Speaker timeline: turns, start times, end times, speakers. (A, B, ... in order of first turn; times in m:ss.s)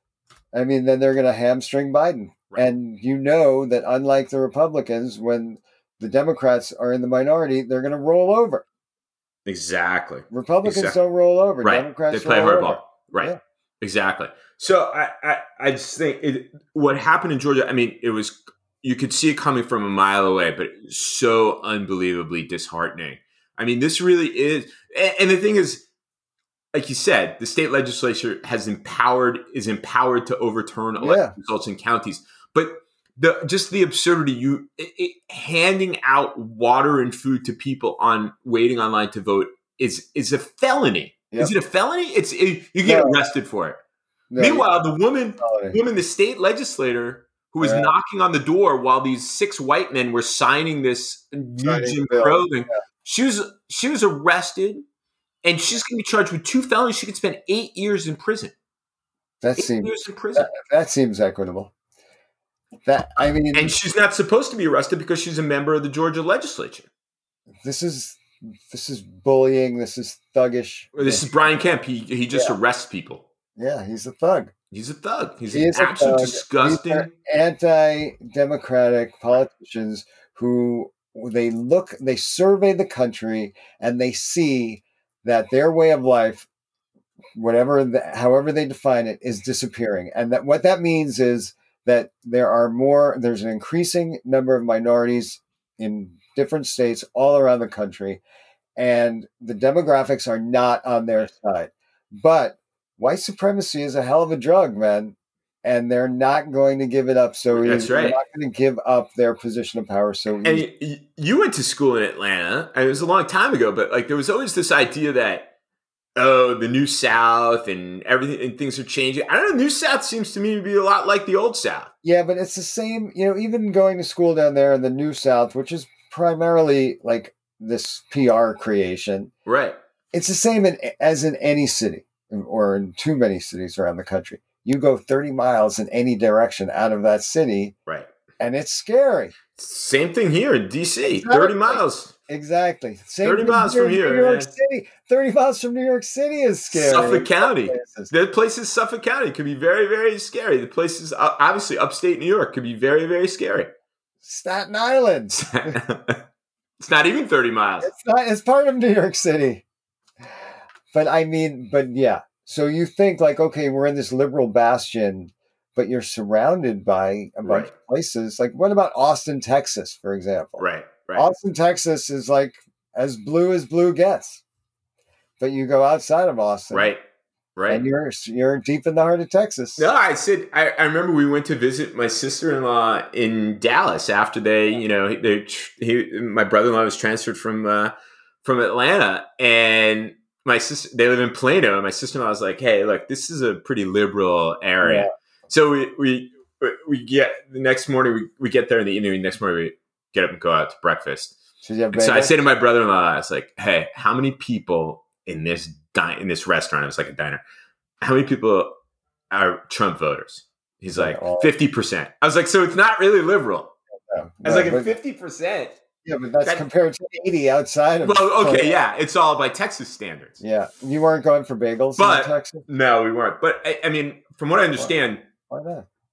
0:00.5-0:08.6 A
0:09.5-0:11.0 B
0:10.3-0:13.4 A
0:11.6-0:25.8 B
0:26.7-0:43.8 B
0:31.0-0:31.3 A
0:42.8-0:43.2 A
0:44.3-0:44.7 A
0:44.4-0:54.8 B
0:45.4-0:45.8 A
0:47.6-0:47.9 A
0:51.6-0:52.5 A
0:55.4-0:58.5 B
0:59.4-1:01.7 A
0:59.6-1:00.5 B
1:02.9-1:03.8 A
1:03.5-1:06.9 B
1:07.6-1:11.3 A
1:11.0-1:13.2 B
1:13.6-1:14.5 A
1:14.7-1:17.1 B
1:15.5-1:26.5 A
1:27.4-1:38.2 A
1:38.8-1:50.7 A
1:47.5-1:48.2 B
1:50.4-1:55.5 B
1:56.2-2:01.9 B
2:02.0-2:09.3 A
2:09.5-2:09.8 B
2:10.1-2:17.8 A
2:18.4-2:19.4 A
2:19.6-2:22.1 B
2:21.0-2:28.1 A
2:23.2-2:24.5 B
2:26.7-2:33.7 B
2:34.2-2:35.8 A
2:35.3-2:36.2 B
2:36.8-2:37.9 B
2:37.8-2:39.6 A
2:40.9-2:54.4 A
2:47.4-2:47.7 B
2:50.6-2:51.3 B
2:55.4-2:56.9 A
2:56.7-2:57.0 B
2:57.6-2:57.8 B
2:57.7-2:59.9 A
2:59.8-3:07.9 B
3:08.4-3:21.4 B
3:14.8-3:15.1 A
3:21.6-3:22.4 A
3:21.9-3:27.4 B
3:28.0-3:28.8 B
3:29.3-3:33.7 B
3:30.9-3:31.5 A
3:34.1-3:34.9 A
3:34.4-3:35.8 B
3:36.0-3:38.8 A
3:38.0-3:40.4 B
3:40.4-3:42.6 A
3:42.0-3:45.2 B
3:45.5-3:45.9 A